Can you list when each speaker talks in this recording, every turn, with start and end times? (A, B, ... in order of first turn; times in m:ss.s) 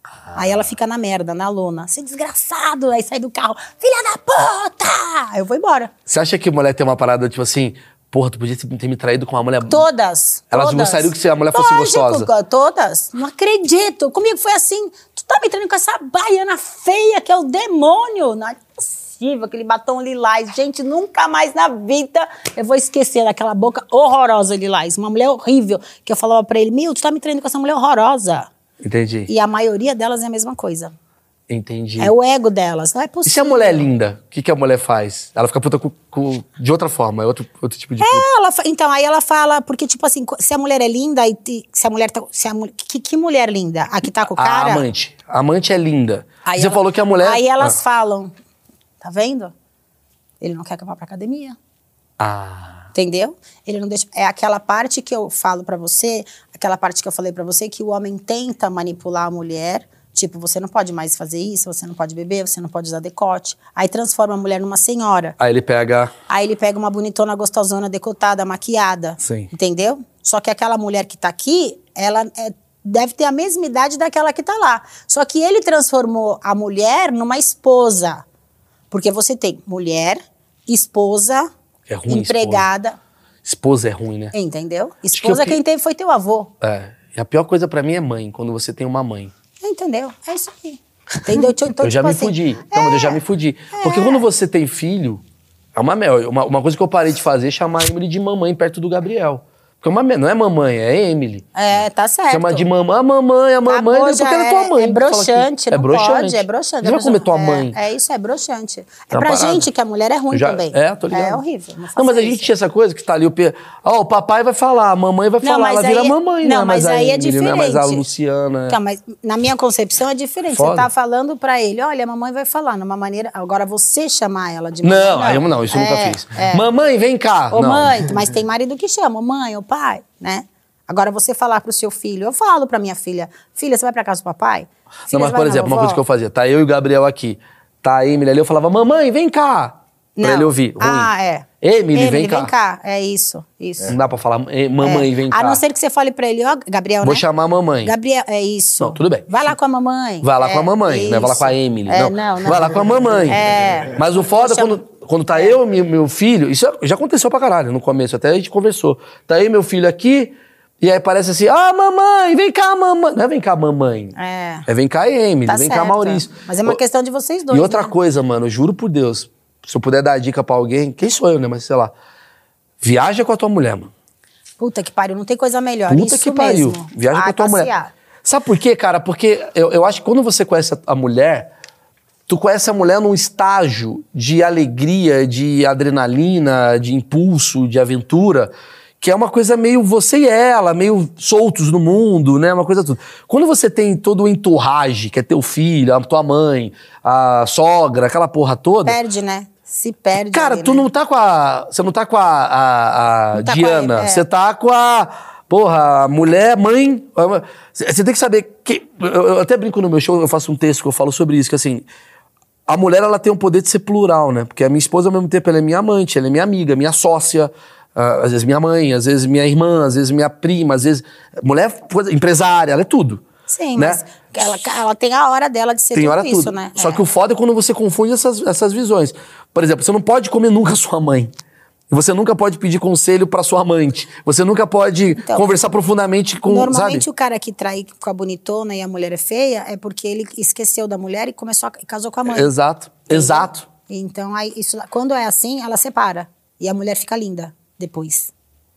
0:00.2-0:00.6 A
0:00.4-0:05.9 B
0:06.1-0:09.8 A
0:09.7-0:28.5 B
0:10.5-0:12.3 A
0:28.8-0:29.3 A
0:29.3-0:30.9 B
0:31.5-0:32.1 A
0:32.0-0:33.8 B
0:33.2-0:38.2 A
0:38.0-0:44.8 B
0:44.3-0:47.8 A
0:46.4-0:48.3 B
0:49.0-0:49.5 B
0:50.4-0:51.6 B
0:52.2-0:52.9 A
0:52.9-1:05.4 B
1:05.4-1:06.1 A
1:06.3-1:18.2 B
1:09.2-1:09.5 A
1:18.9-1:21.5 B
1:21.9-1:22.7 A
1:22.1-1:23.0 B
1:23.4-1:24.3 A
1:24.3-1:26.5 B
1:25.1-1:25.6 A
1:26.6-1:29.3 A
1:29.6-1:33.2 B
1:31.8-1:35.2 A
1:33.7-1:34.2 B
1:35.7-1:41.5 A
1:41.5-1:42.6 B
1:42.3-1:47.8 A
1:43.7-1:52.5 B
1:49.1-1:49.7 A
1:50.3-1:51.4 A
1:52.0-1:58.8 A
1:55.4-1:58.0 B
1:58.7-2:06.6 B
2:00.5-2:00.9 A
2:04.8-2:07.9 A
2:07.5-2:16.0 B
2:15.1-2:21.1 A
2:20.2-2:24.0 B
2:21.6-2:22.5 A
2:23.9-2:25.6 A
2:24.8-2:27.2 B
2:27.0-2:27.9 A
2:27.8-2:34.8 B
2:28.8-2:29.5 A
2:30.2-2:44.1 A
2:44.2-2:44.7 B
2:44.7-2:46.8 A
2:45.5-2:47.9 B
2:47.5-2:51.9 A
2:52.8-2:53.9 A
2:54.6-2:57.9 B
2:55.9-2:57.7 A
2:58.2-3:01.5 A
3:02.3-3:19.0 A
3:18.8-3:20.9 B
3:20.3-3:31.8 A
3:23.3-3:24.2 B
3:32.7-3:43.2 A
3:43.5-3:47.0 B
3:43.8-3:44.0 A
3:45.9-3:51.3 A
3:51.9-3:57.0 A
3:55.2-3:55.5 B
3:56.5-4:02.5 B
4:02.3-4:03.6 A
4:03.1-4:08.3 B